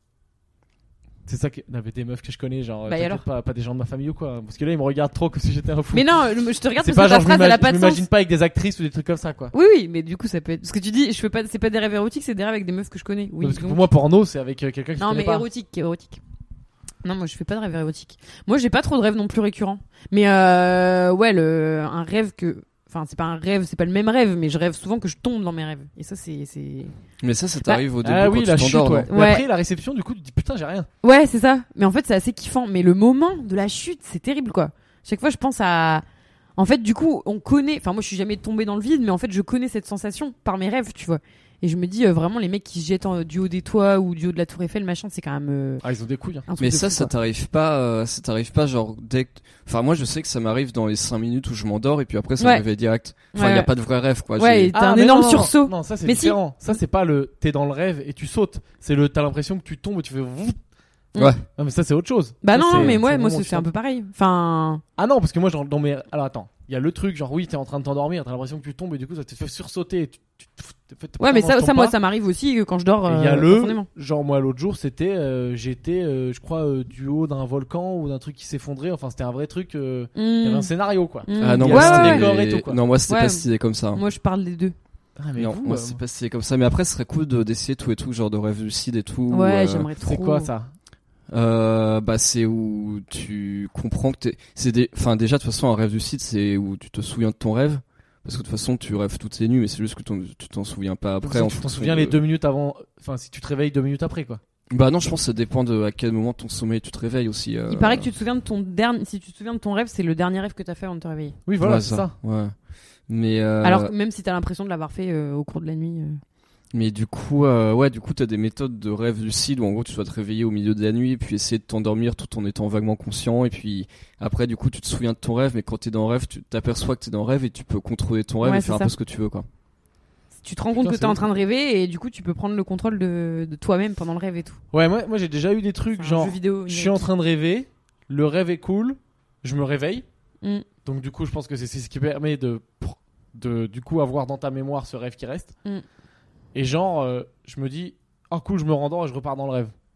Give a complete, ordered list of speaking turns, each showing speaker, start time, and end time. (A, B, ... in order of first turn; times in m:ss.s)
0:01.3-0:06.2 A
0:02.9-0:03.2 B
0:05.9-0:08.0 B
0:06.8-0:09.5 A
0:09.5-0:13.8 B
0:13.4-0:15.5 A
0:15.0-0:16.2 B
0:17.0-0:27.0 B
0:27.2-0:29.1 C
0:28.0-0:30.9 A
0:29.1-0:29.5 B
0:31.0-0:36.0 B
0:36.6-0:45.8 B
0:45.8-0:46.5 A
0:46.5-0:47.1 B
0:46.6-0:54.7 C
0:52.4-0:52.6 B
0:53.3-0:53.7 B
0:54.4-0:56.4 B
0:54.7-1:00.6 A
1:01.2-1:01.4 C
1:01.6-1:03.7 A
1:02.4-1:04.8 B
1:02.7-1:03.0 C
1:05.0-1:12.0 A
1:11.2-1:13.9 B
1:13.1-1:22.8 A
1:20.2-1:20.7 B
1:21.3-1:22.3 B
1:21.4-1:24.0 C
1:23.1-1:24.8 B
1:25.2-1:26.0 A
1:25.4-1:29.9 C
1:29.3-1:30.5 B
1:30.0-1:30.7 A
1:31.3-1:42.2 C
1:41.2-1:44.4 A
1:44.7-1:48.1 C
1:47.7-1:51.4 B
1:51.5-1:52.2 A
1:51.6-1:52.6 C
1:53.1-1:53.9 C
1:53.6-1:56.2 B
1:56.7-2:09.5 C
2:08.4-2:08.9 B
2:10.4-2:14.6 B
2:10.8-2:11.2 A
2:14.7-2:20.0 A
2:16.0-2:17.0 B
2:20.8-2:25.5 A
2:26.5-2:29.7 A